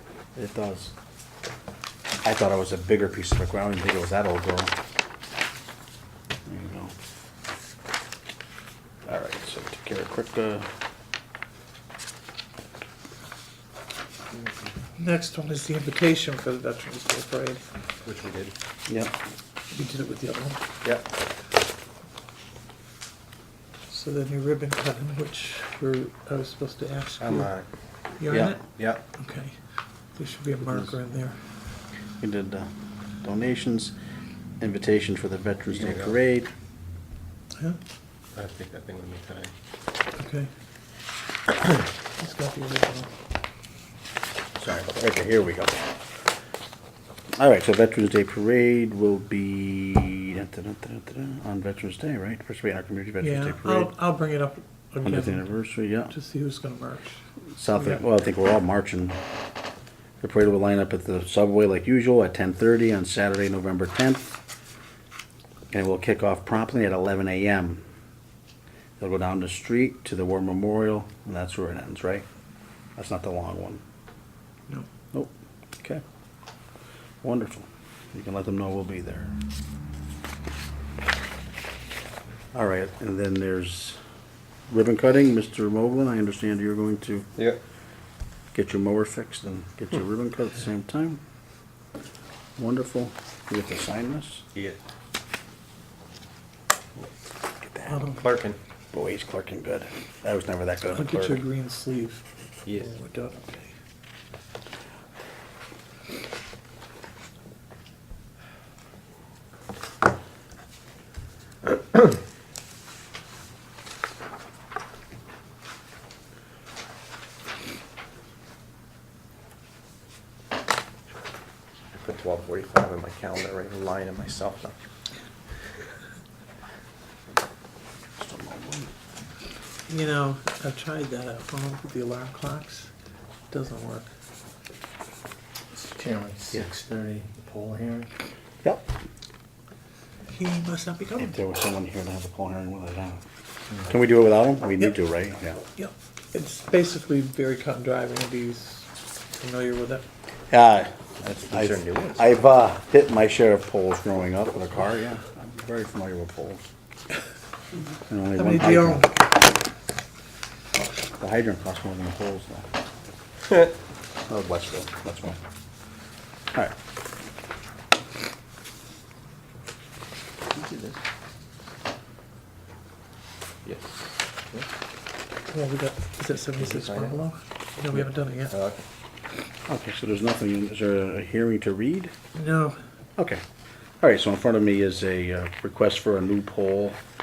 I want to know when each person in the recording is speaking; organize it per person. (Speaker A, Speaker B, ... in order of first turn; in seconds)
Speaker A: 0.4-0.9, 2.2-4.8, 6.5-6.9, 9.1-10.7, 18.9-19.1, 28.3-28.6, 32.2-32.7, 33.2-34.0, 34.6-36.5, 44.6-45.9, 47.4-53.9, 55.0-56.1, 57.6-59.2, 60.2-64.3, 65.7-67.8, 69.0-72.2, 73.0-73.8, 75.1-76.0, 77.2-79.3, 82.5-84.0, 84.7-87.3, 88.5-91.2, 92.6-94.5, 97.6-98.1, 98.9-101.4, 128.2-128.9, 141.2-143.2, 143.8-145.6, 150.5-156.7, 158.1-159.1, 161.2-162.7, 164.3-165.4, 179.7-182.1, 183.2-183.4, 184.0-187.0
Speaker B: 15.0-18.0, 19.7-20.7, 23.9-27.5, 28.2-31.4, 40.2-40.5, 42.2-43.1, 53.2-55.5, 56.1-57.2, 97.9-98.2, 100.9-103.7, 129.9-132.9, 133.5-134.1, 140.3-141.3, 145.8-150.0, 158.4-159.2, 175.5-178.6, 182.3-182.8
Speaker C: 18.0-18.5, 27.2-27.7, 28.8-29.0, 35.7-36.1, 38.3-39.5, 94.5-94.8, 98.2-98.6, 102.7-102.9, 121.9-124.8, 151.3-152.3, 173.7-174.1, 176.8-177.1, 178.5-178.8
Speaker D: 135.7-138.1, 170.7-170.9